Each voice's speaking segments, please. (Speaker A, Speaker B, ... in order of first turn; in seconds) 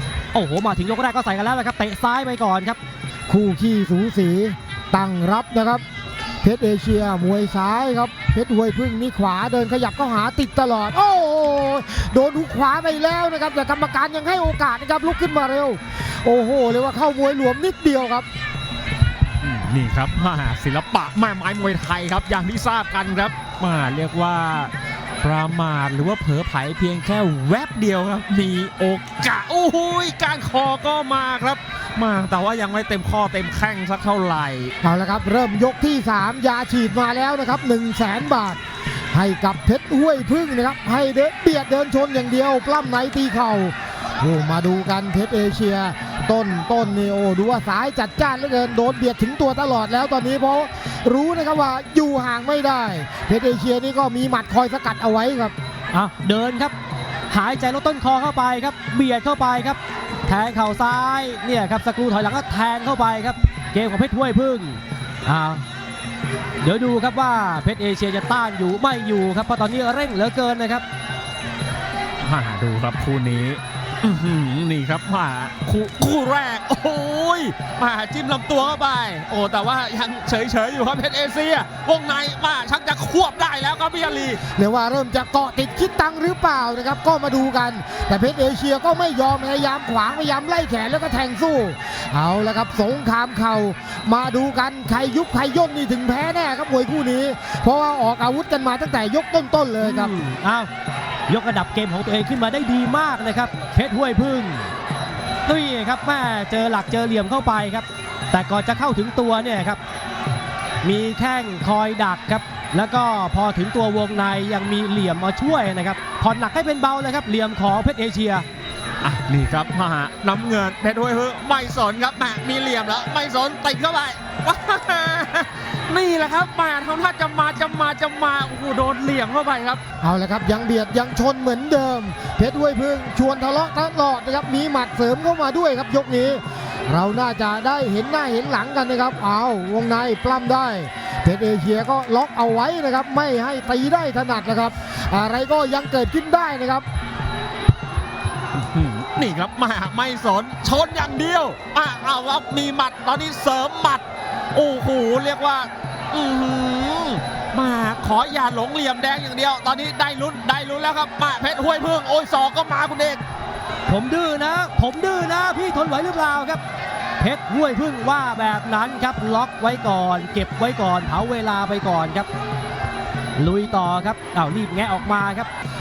Speaker A: 0.3-2.8, 55.9-56.7, 57.3-65.6, 66.6-70.8, 99.8-100.7, 101.3-104.7, 105.5-109.8, 110.8-118.5, 163.9-166.6, 167.2-172.3, 173.3-175.5
Speaker B: 3.3-5.8, 6.4-18.2, 34.8-38.6, 39.1-55.5, 84.5-100.1, 130.0-146.8
Speaker C: 19.4-34.7, 72.2-84.4, 119.0-129.8, 148.5-163.2